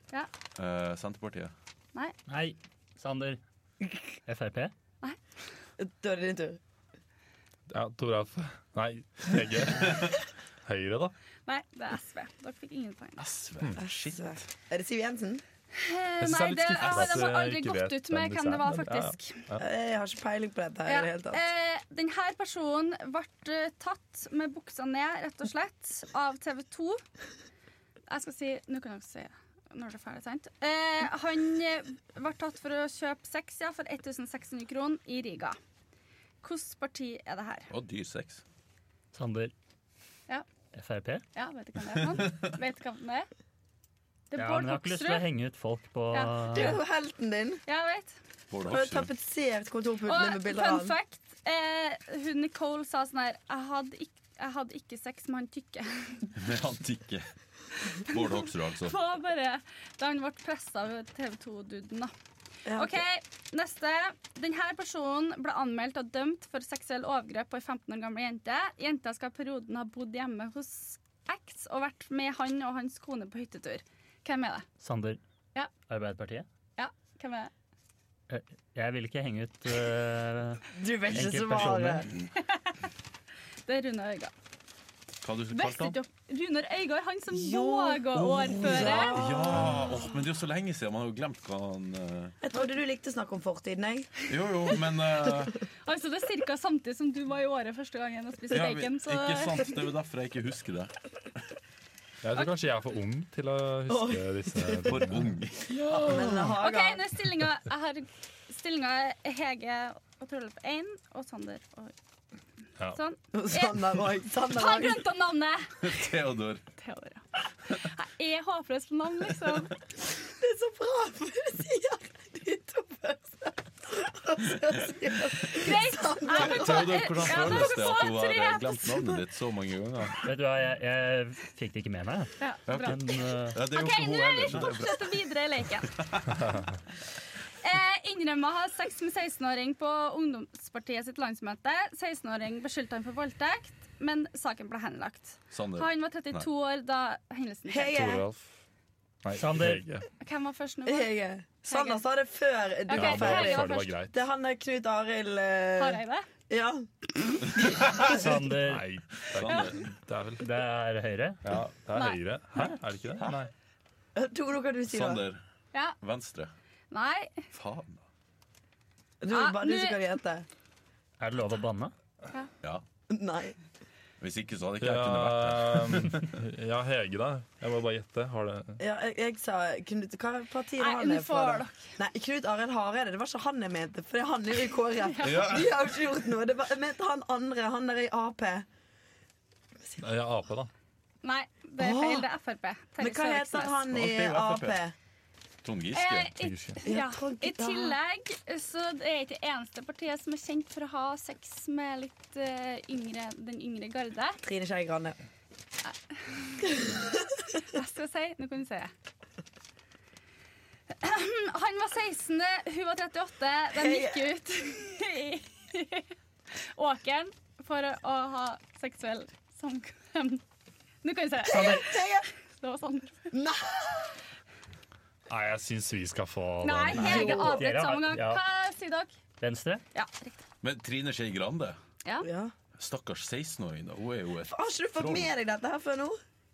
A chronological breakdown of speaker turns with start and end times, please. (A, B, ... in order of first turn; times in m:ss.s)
0:00.6-0:01.5 A
0:02.3-0:03.4 B
0:04.3-0:04.7 B
0:05.8-0:06.6 C
0:07.7-0:11.1 D
0:11.5-0:13.3 E
0:13.2-0:14.4 A
0:13.8-0:15.4 C
0:15.7-0:19.5 E
0:16.2-0:19.6 D
0:16.8-0:17.2 A
0:19.6-0:21.4 C
0:20.9-0:27.0 E
0:28.1-0:35.6 E
0:36.4-0:37.7 E
0:37.7-0:38.4 A
0:39.1-0:39.5 B
0:40.7-0:41.2 B
0:41.4-0:43.3 E
0:42.2-0:42.5 A
0:44.3-0:45.2 E
0:44.4-0:46.8 B
0:46.1-0:46.8 E
0:46.5-0:47.6 C
0:47.7-0:48.2 E
0:48.5-0:49.1 A
0:48.7-0:51.0 C
0:50.0-0:56.3 E
0:56.3-0:57.3 A
0:57.9-0:59.0 A
0:58.0-1:02.1 E
1:02.7-1:03.0 C
1:02.7-1:14.7 E
1:14.8-1:15.2 B
1:15.9-1:16.5 B
1:16.8-1:17.5 E
1:18.3-1:22.1 B
1:20.7-1:22.1 C
1:21.2-1:22.3 A
1:22.4-1:22.8 E
1:23.7-1:24.3 E
1:25.2-1:26.0 A
1:25.5-1:29.2 E
1:27.3-1:30.1 C
1:28.3-1:32.4 A
1:32.4-1:34.1 C
1:34.3-1:35.6 A
1:35.9-1:39.9 E
1:38.5-1:40.9 A
1:42.2-1:45.4 D
1:43.9-1:45.0 C
1:44.9-1:46.5 A
1:45.9-1:47.1 C
1:46.2-1:51.9 E
1:52.9-1:56.1 E
1:53.3-1:55.1 C
1:55.8-1:56.6 A
1:56.8-1:59.8 E
2:00.3-2:07.7 C
2:05.5-2:09.2 E
2:06.3-2:10.2 A
2:10.2-2:13.6 B
2:12.4-2:15.9 E
2:12.7-2:15.0 A
2:15.8-2:16.4 A
2:17.6-2:28.1 E
2:25.5-2:26.5 A
2:27.7-2:28.2 C
2:27.9-2:28.5 D
2:29.2-2:30.1 D
2:29.4-2:29.8 B
2:30.2-2:31.1 E
2:30.9-2:38.1 C
2:31.7-2:32.0 E
2:32.9-2:34.0 E
2:32.9-2:34.2 D
2:35.8-2:36.3 E
2:37.6-2:38.1 A
2:38.0-2:38.8 B
2:38.1-2:40.5 D
2:39.3-2:39.9 A
2:40.4-2:41.4 B
2:41.4-2:43.5 D
2:42.0-2:42.2 E
2:44.2-2:45.2 C
2:44.9-2:45.4 A
2:46.0-2:46.5 A
2:46.9-2:47.5 E
2:47.5-2:48.0 A
2:49.2-2:50.5 C
2:49.3-2:50.0 E
2:51.2-2:51.9 B
2:53.1-2:53.6 C
2:54.2-2:56.4 A
2:54.8-2:58.8 D
2:58.8-3:08.7 C
3:00.8-3:01.9 E
3:05.0-3:05.6 E
3:05.2-3:05.7 A
3:10.0-3:10.7 D
3:11.2-3:13.8 E
3:11.8-3:12.3 C
3:13.0-3:15.0 C
3:13.9-3:14.8 A
3:15.6-3:16.3 A
3:15.9-3:24.4 E
3:16.4-3:16.8 D
3:16.8-3:18.0 C
3:24.4-3:25.2 C
3:25.8-3:27.0 E
3:26.7-3:27.4 C
3:27.6-3:28.9 E
3:31.0-3:40.4 E
3:33.7-3:34.3 C
3:41.0-3:43.3 E
3:41.5-3:42.3 C
3:41.5-3:41.9 B
3:43.3-3:44.2 C
3:45.3-3:47.6 D
3:46.6-3:49.2 E
3:46.9-3:48.4 B
3:47.4-3:47.6 C
3:49.4-3:49.8 B
3:49.9-3:50.4 E
3:50.6-3:51.8 A
3:52.2-3:52.5 C
3:52.8-3:55.3 A
3:54.5-3:56.2 C